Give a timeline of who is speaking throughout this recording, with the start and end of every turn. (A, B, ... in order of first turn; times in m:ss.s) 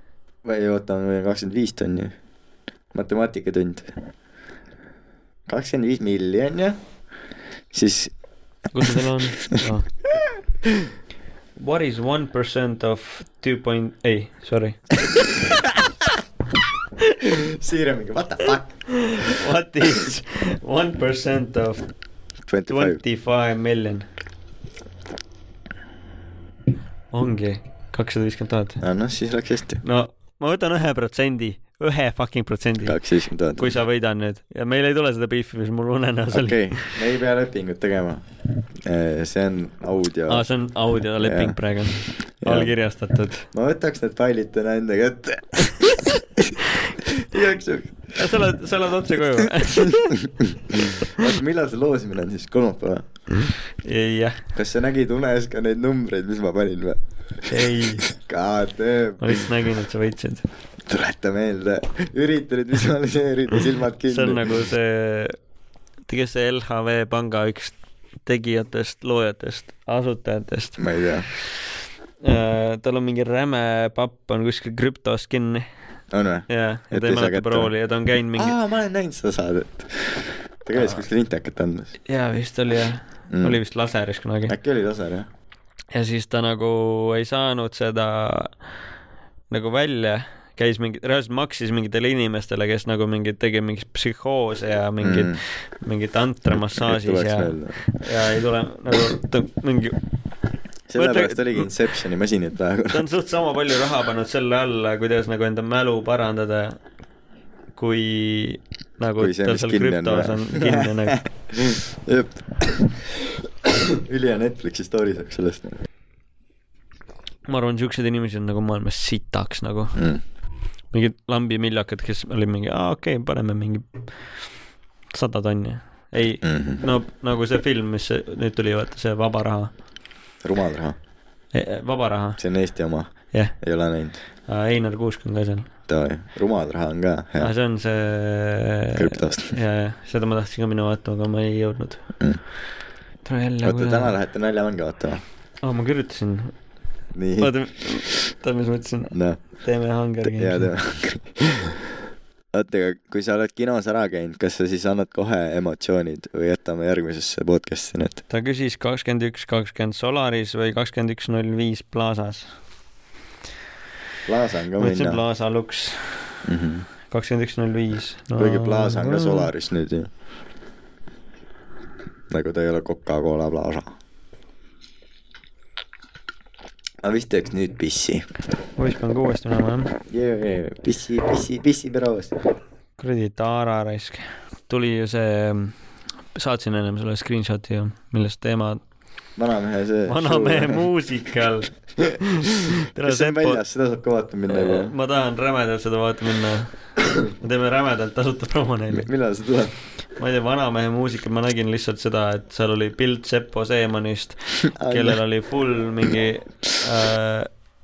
0:00.4-0:02.1 A
0:02.9-0:03.9 A
0:05.5-0:06.8 A
0:07.7-0:08.1 A
0:08.7-0:09.9 B
0:11.6-0:14.9 B
0:17.2-0:19.4 A
0:18.9-0:21.9 B
0:22.5-0:23.0 A
0:22.7-0:24.1 B
0:27.1-0:28.8 B
0:28.8-0:29.8 A
0:29.8-0:33.0 B
0:32.8-0:33.8 A
0:33.6-0:37.0 B
0:36.3-0:38.2 A
0:38.8-0:40.5 A
0:40.3-0:43.5 B
0:41.2-0:41.6 A
0:42.4-0:42.7 A
0:43.5-0:48.4 A
0:48.2-0:50.2 B
0:49.4-0:53.1 A
0:53.8-0:54.4 B
0:54.6-0:59.5 A
0:57.5-0:58.1 B
0:59.2-1:00.5 B
1:00.9-1:04.5 A
1:04.1-1:05.4 B
1:06.1-1:11.4 B
1:10.8-1:11.3 A
1:12.2-1:15.7 B
1:16.1-1:17.7 A
1:16.5-1:18.6 B
1:18.4-1:21.9 A
1:20.8-1:21.0 B
1:22.1-1:24.6 B
1:23.3-1:23.6 A
1:24.5-1:25.3 A
1:25.9-1:28.6 B
1:29.5-1:40.0 B
1:35.0-1:35.4 A
1:36.5-1:37.8 A
1:40.9-1:43.1 A
1:41.0-1:41.7 B
1:42.9-1:46.8 B
1:47.8-1:51.2 B
1:49.2-1:55.8 A
1:57.5-2:00.0 B
2:00.0-2:00.2 A
2:00.9-2:04.1 B
2:05.1-2:09.7 B
2:06.4-2:06.8 A
2:10.4-2:11.0 A
2:11.5-2:12.4 B
2:12.4-2:14.2 A
2:14.5-2:15.7 B
2:15.9-2:17.5 A
2:17.4-2:22.0 B
2:19.0-2:19.6 A
2:23.2-2:24.2 B
2:23.6-2:25.2 A
2:25.6-2:26.5 B
2:27.1-2:27.5 A
2:27.4-2:30.7 B
2:29.1-2:29.4 A
2:30.2-2:31.8 A
2:32.5-2:38.2 A
2:38.3-2:42.5 B
2:44.3-2:45.2 A
2:44.8-2:46.4 B
2:46.4-2:46.9 A
2:47.1-2:49.5 B
2:48.4-2:50.1 A
2:52.3-2:53.9 A
2:57.0-2:58.3 A
2:58.8-2:59.9 B
3:00.1-3:02.4 A
3:03.0-3:05.8 B
3:06.4-3:08.8 B
3:09.4-3:10.9 A
3:10.1-3:13.6 B
3:12.7-3:14.9 A
3:14.5-3:19.1 B
3:18.9-3:19.8 A
3:20.2-3:27.5 B
3:24.7-3:25.2 A